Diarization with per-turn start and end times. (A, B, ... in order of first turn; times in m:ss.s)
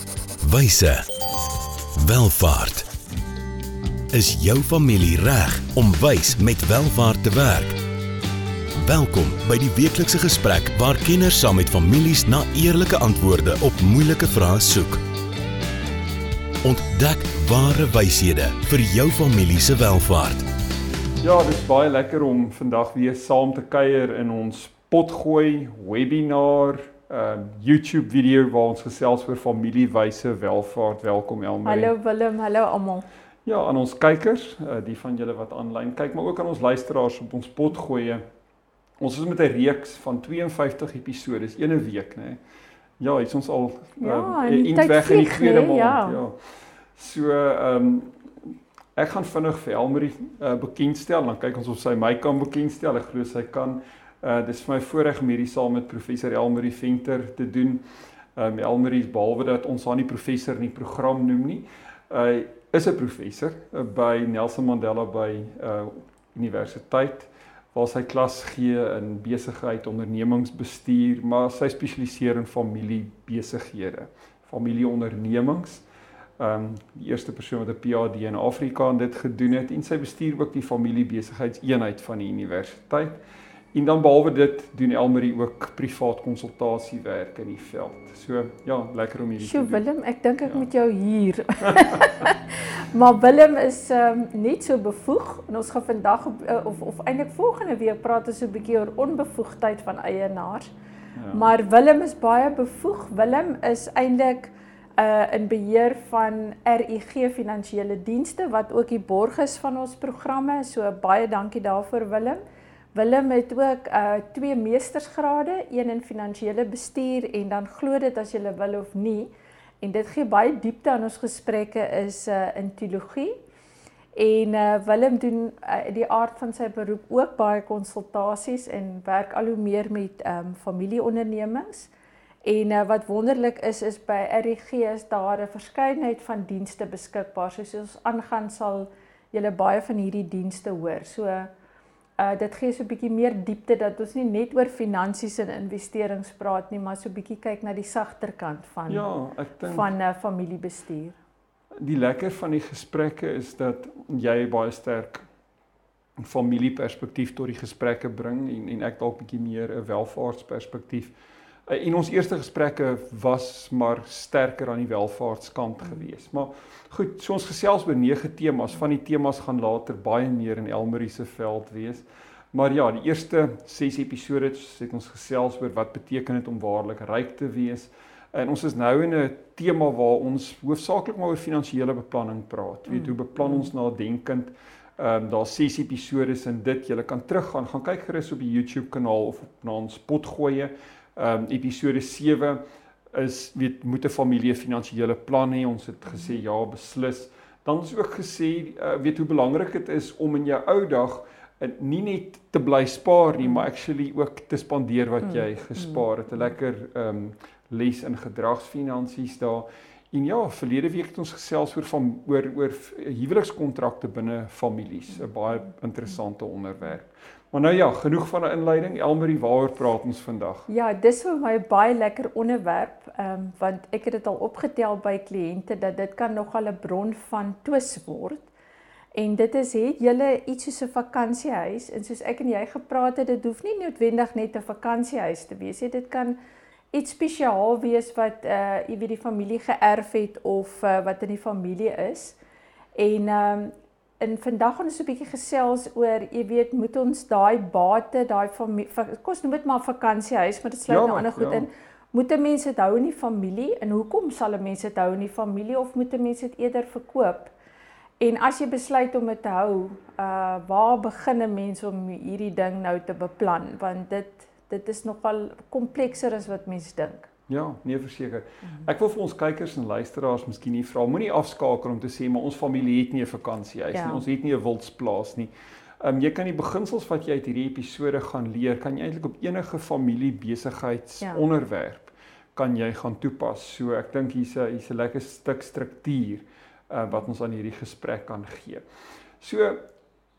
0:00.4-0:01.0 A
0:02.0-0:02.9 A
0:04.1-0:07.8 A
0:08.8-0:15.0 A
0:16.6-0:20.5 A
0:21.2-0:31.9 B
0:31.6-0:33.1 C
0:33.5-0:38.2 B
0:39.0-0:42.4 B
0:43.0-0:57.8 B
0:44.0-0:46.2 C
0:58.4-1:15.8 B
1:16.4-1:23.2 B
1:23.7-1:29.8 B
1:29.4-1:40.7 C
1:31.7-1:32.1 B
1:41.2-1:41.5 B
1:41.3-1:52.4 C
1:53.0-1:59.3 C
1:59.8-2:03.4 C
2:04.2-2:11.9 C
2:12.4-2:21.5 C
2:22.2-2:29.1 C
2:28.9-2:29.9 B
2:29.6-2:31.2 C
2:31.8-2:35.3 B
2:36.2-2:41.2 B
2:41.7-3:40.7 B
3:40.7-3:48.5 C
3:49.1-3:56.4 C
3:56.9-4:02.4 C
4:03.0-4:17.5 C
4:10.9-4:11.7 B
4:18.2-4:27.3 C
4:27.5-4:48.9 B
4:33.9-4:34.2 C
4:49.4-4:49.9 B